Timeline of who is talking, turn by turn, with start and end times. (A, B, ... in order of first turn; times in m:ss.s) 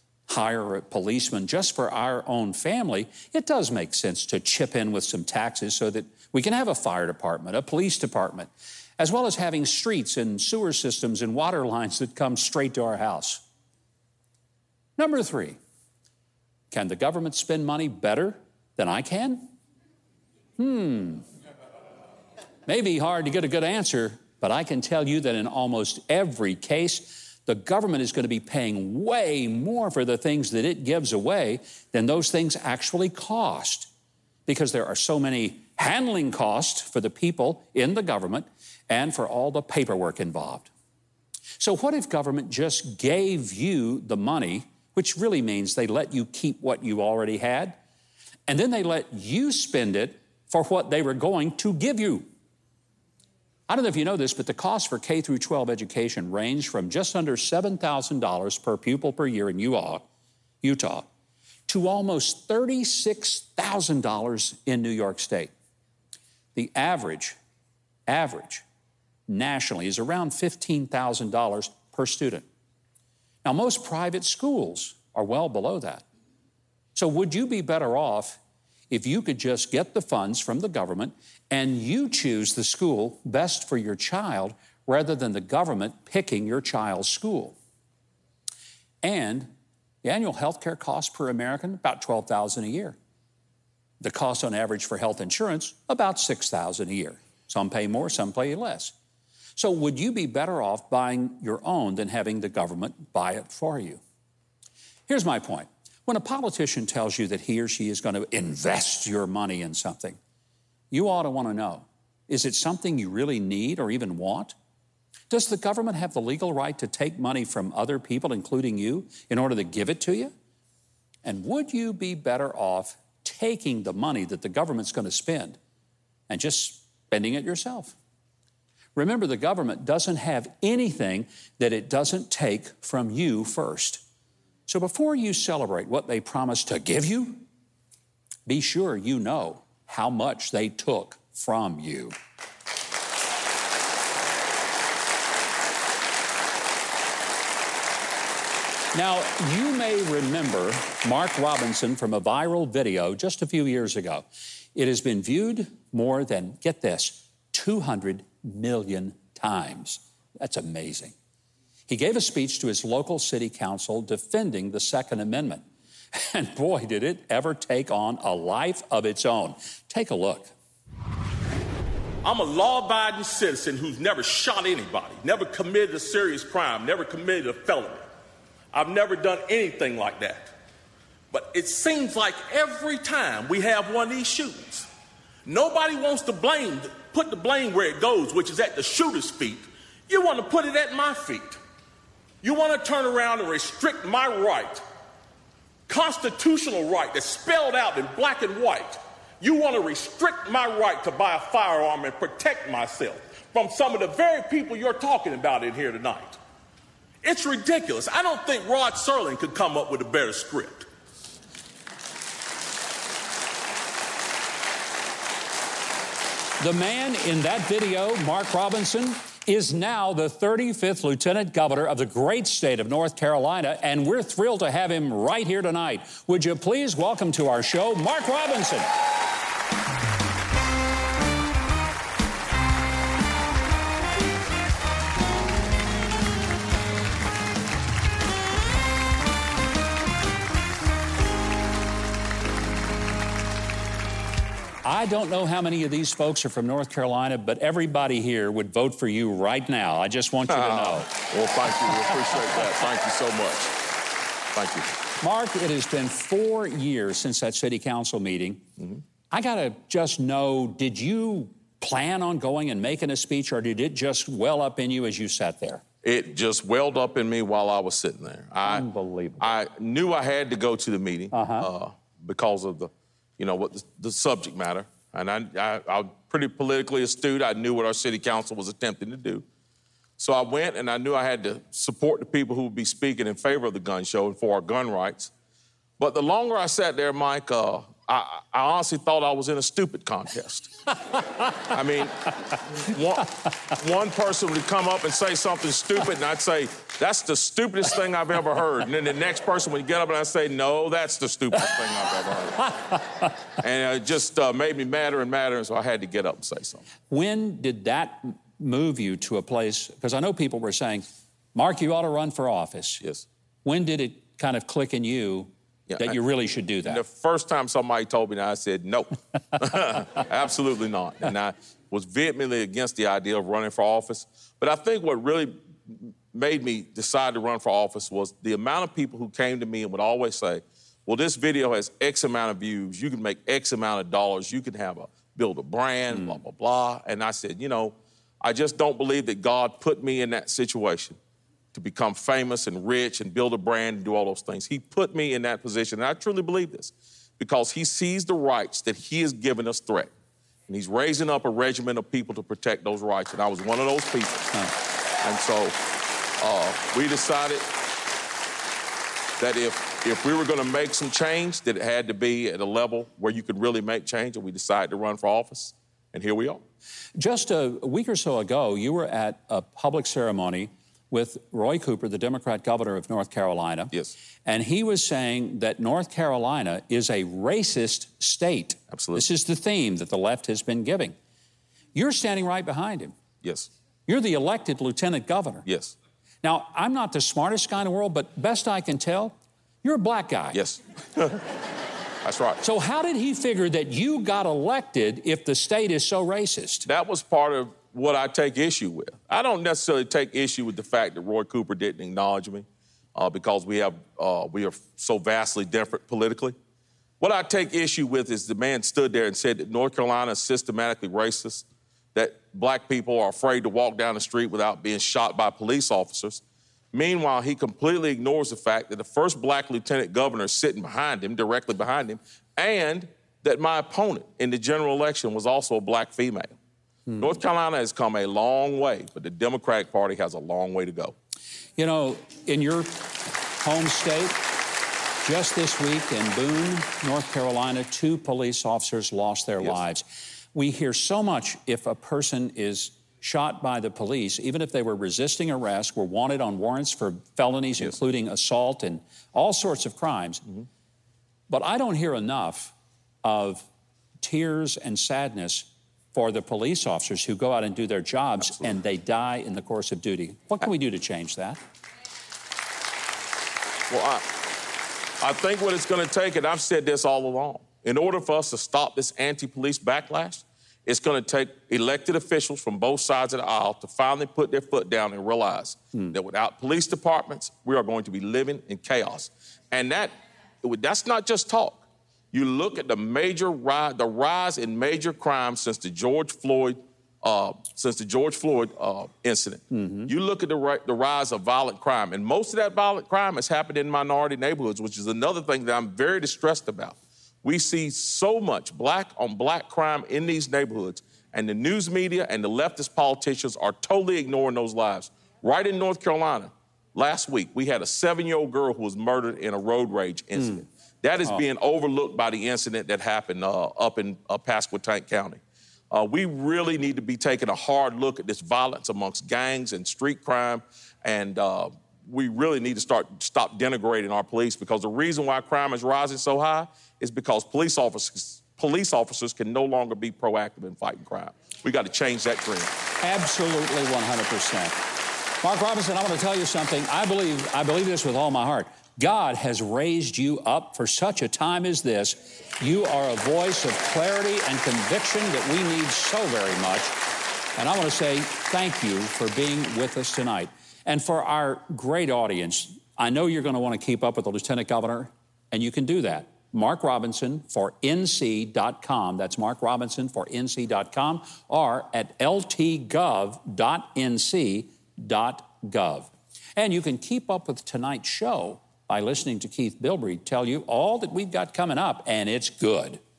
0:00.3-0:13.4 A
0:15.0-0:15.6 A
0:16.7-0:19.5 A
0:20.6-0:21.2 A
0:22.7-0:33.9 A
0:34.5-0:40.7 A
0:41.6-0:47.8 A
0:48.5-0:52.3 A
0:53.7-1:00.1 A
1:00.6-1:01.1 A
1:01.7-1:05.5 A
1:06.5-1:07.4 A
1:08.1-1:08.6 A
1:09.3-1:12.5 A
1:13.4-1:16.0 A
1:17.0-1:18.4 A
1:18.9-1:27.6 A
1:29.0-1:33.0 A
1:34.0-1:38.9 A
1:39.6-1:44.0 A
1:45.1-1:50.2 A
1:50.9-1:54.5 A
1:55.3-2:00.3 A
2:01.2-2:05.6 A
2:06.3-2:08.0 A
2:09.0-2:14.0 A
2:14.7-2:17.5 A
2:18.5-2:22.2 A
2:28.9-2:41.2 A
2:41.9-2:45.6 A
2:46.1-2:50.5 A
2:52.2-2:58.0 B
2:58.7-3:00.5 B
3:01.3-3:04.9 B
3:05.5-3:11.6 B
3:12.4-3:14.8 B
3:15.9-3:26.4 B
3:27.2-3:30.9 B
3:36.6-3:48.9 A
4:04.8-4:11.1 A
4:10.5-4:13.7 B
4:14.5-4:14.9 B
4:15.2-4:18.6 A
4:19.3-4:25.8 A
4:26.0-4:28.9 B
4:28.7-4:29.5 A
4:29.4-4:39.4 B
4:31.3-4:31.7 A
4:40.2-4:45.3 B
4:46.0-4:50.7 B
4:51.6-5:02.7 B
5:03.6-5:06.8 B
5:07.1-5:13.0 A
5:13.6-5:17.0 A
5:15.9-5:16.2 B
5:16.8-5:41.2 B
5:41.7-5:50.1 B
5:50.7-5:54.6 B
5:55.2-5:55.8 B
5:56.4-5:57.7 B
5:59.4-6:06.6 B
6:07.2-6:13.9 A
6:14.4-6:21.1 A
6:18.9-6:19.2 B
6:22.0-6:23.1 A
6:23.4-6:23.7 B
6:24.1-6:25.7 A
6:25.7-6:25.9 B
6:26.4-6:30.6 A
6:30.5-6:31.4 B
6:32.2-6:32.6 B
6:32.6-6:36.9 A
6:36.9-6:46.6 B
6:47.2-6:56.4 B
6:56.9-7:06.6 B
7:07.2-7:11.1 B
7:11.8-7:13.1 A
7:13.6-7:14.4 A
7:15.2-7:30.4 A
7:31.5-7:33.7 A
7:34.2-7:41.6 A
7:43.9-7:44.3 B
7:45.2-8:35.4 B
8:09.7-8:10.1 A
8:35.9-8:52.7 B
8:53.0-8:54.8 A
8:55.4-9:07.0 A
9:07.6-9:33.0 A